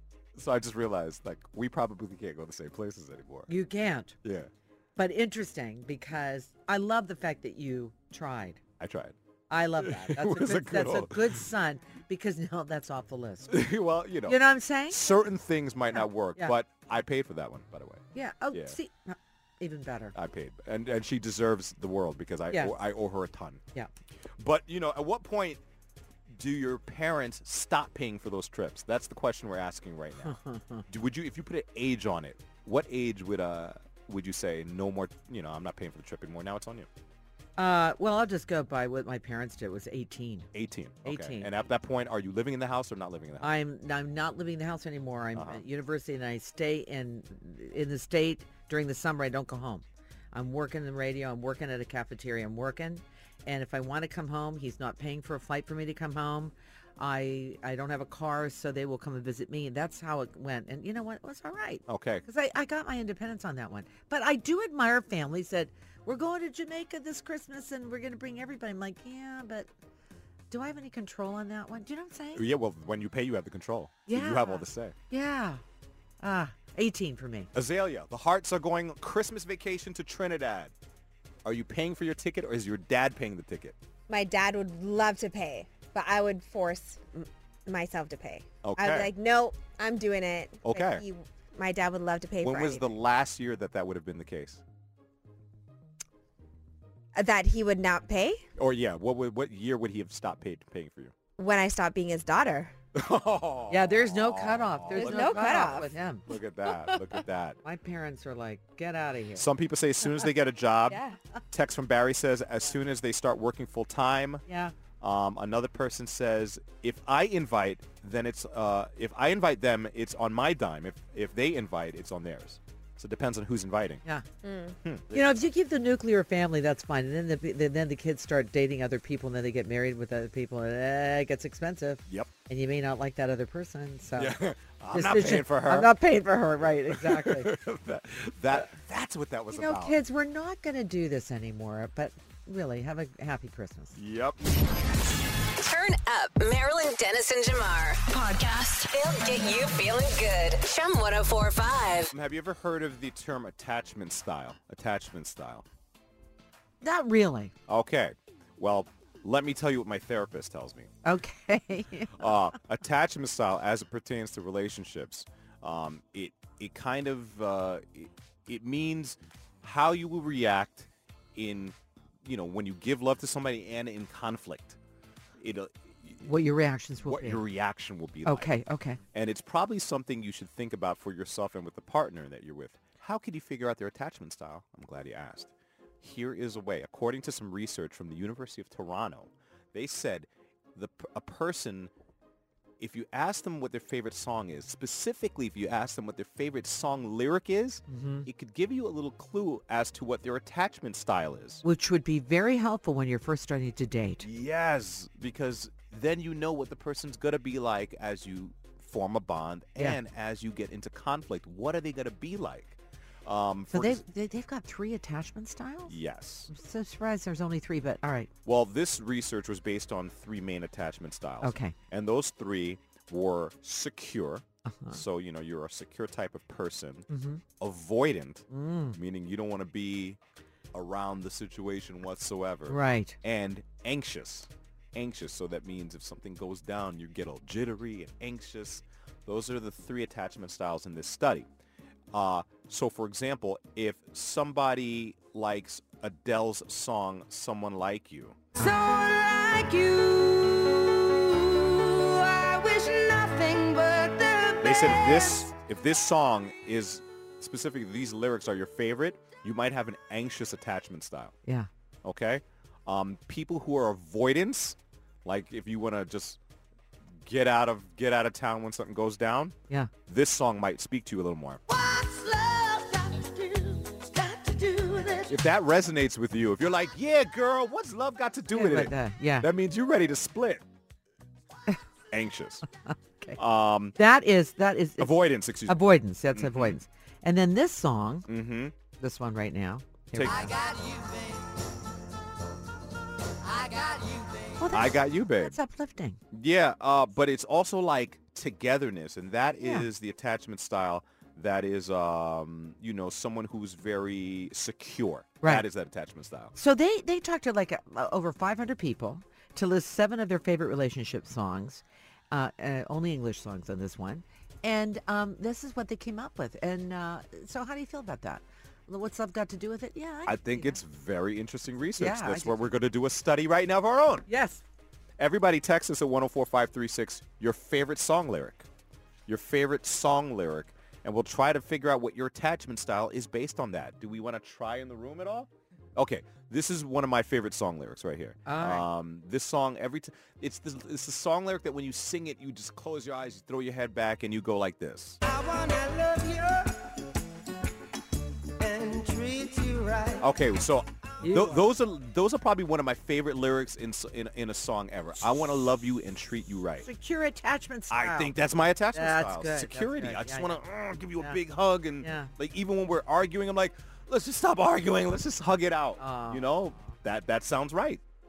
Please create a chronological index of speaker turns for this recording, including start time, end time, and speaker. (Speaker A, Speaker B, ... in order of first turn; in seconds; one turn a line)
Speaker A: 0.3-3.5
Speaker B: 3.5-4.2
Speaker A: 4.2-4.5
Speaker B: 5.0-8.6
Speaker A: 8.8-9.2
Speaker B: 9.5-13.7
Speaker A: 9.8-11.4
Speaker A: 13.5-18.8
Speaker B: 14.2-15.0
Speaker B: 18.1-20.1
Speaker A: 20.1-23.6
Speaker A: 24.4-25.6
Speaker A: 26.3-30.4
Speaker B: 30.2-30.8
Speaker A: 30.9-36.9
Speaker B: 37.6-40.5
Speaker A: 40.5-43.5
Speaker B: 41.0-41.5
Speaker B: 43.4-69.7
Speaker A: 45.4-45.6
Speaker A: 61.9-62.2
Speaker B: 70.5-72.4
Speaker A: 72.3-74.9
Speaker B: 74.1-75.6
Speaker B: 76.2-77.5
Speaker A: 77.5-80.7
Speaker A: 81.4-83.8
Speaker C: 84.1-92.9
Speaker A: 88.6-89.1
Speaker A: 90.6-91.0
Speaker A: 92.4-94.6
Speaker C: 97.1-98.4
Speaker A: 98.6-101.1
Speaker C: 101.4-102.7
Speaker A: 102.9-107.6
Speaker B: 103.7-106.3
Speaker C: 104.9-105.9
Speaker C: 106.8-107.1
Speaker B: 107.6-109.5
Speaker A: 109.3-111.0
Speaker C: 110.9-111.2
Speaker A: 111.5-114.4
Speaker B: 114.5-114.8
Speaker A: 115.0-124.0
Speaker C: 124.4-124.8
Speaker A: 124.8-125.4
Speaker B: 125.1-134.4
Speaker A: 134.1-135.9
Speaker B: 134.9-137.5
Speaker A: 136.6-140.0
Speaker B: 139.5-143.9
Speaker A: 143.9-144.4
Speaker D: 144.4-145.3
Speaker E: 145.6-152.1
Speaker A: 152.1-155.7
Speaker B: 156.8-157.5
Speaker A: 157.7-160.9
Speaker B: 161.1-162.3
Speaker A: 162.2-174.8
Speaker A: 175.4-176.4
Speaker B: 176.2-177.4
Speaker A: 177.0-178.5
Speaker B: 178.2-179.0
Speaker A: 179.1-191.9
Speaker A: 192.8-201.6
Speaker B: 197.9-198.3
Speaker B: 201.6-204.2
Speaker A: 204.2-214.0
Speaker B: 213.7-216.0
Speaker A: 215.9-216.5
Speaker B: 216.5-218.3
Speaker A: 218.4-230.2
Speaker B: 221.4-221.8
Speaker B: 224.7-225.0
Speaker B: 227.1-227.4
Speaker B: 228.5-229.0
Speaker A: 230.7-241.5
Speaker B: 232.7-233.2
Speaker A: 242.1-248.4
Speaker D: 248.6-255.5
Speaker A: 254.6-261.4
Speaker A: 262.0-266.4
Speaker A: 267.2-271.6
Speaker D: 271.7-275.3
Speaker A: 275.3-280.6
Speaker B: 278.5-279.5
Speaker A: 282.1-282.6
Speaker B: 282.9-283.4
Speaker A: 283.4-284.0
Speaker B: 284.0-288.2
Speaker A: 285.0-286.8
Speaker A: 288.3-288.8
Speaker B: 289.0-290.6
Speaker A: 290.1-290.5
Speaker D: 290.3-291.5
Speaker D: 293.5-294.5
Speaker B: 294.6-296.2
Speaker A: 294.7-295.6
Speaker A: 296.3-306.5
Speaker B: 299.6-299.9
Speaker B: 306.6-320.8
Speaker A: 320.2-324.3
Speaker B: 322.0-322.7
Speaker B: 324.3-324.6
Speaker A: 325.2-328.7
Speaker A: 329.3-345.2
Speaker B: 338.5-338.9
Speaker D: 345.2-346.9
Speaker D: 348.6-350.2
Speaker A: 350.2-356.9
Speaker B: 351.2-351.7
Speaker B: 356.8-358.3
Speaker A: 357.9-368.0
Speaker B: 358.9-360.6
Speaker B: 362.0-362.3
Speaker B: 366.0-366.5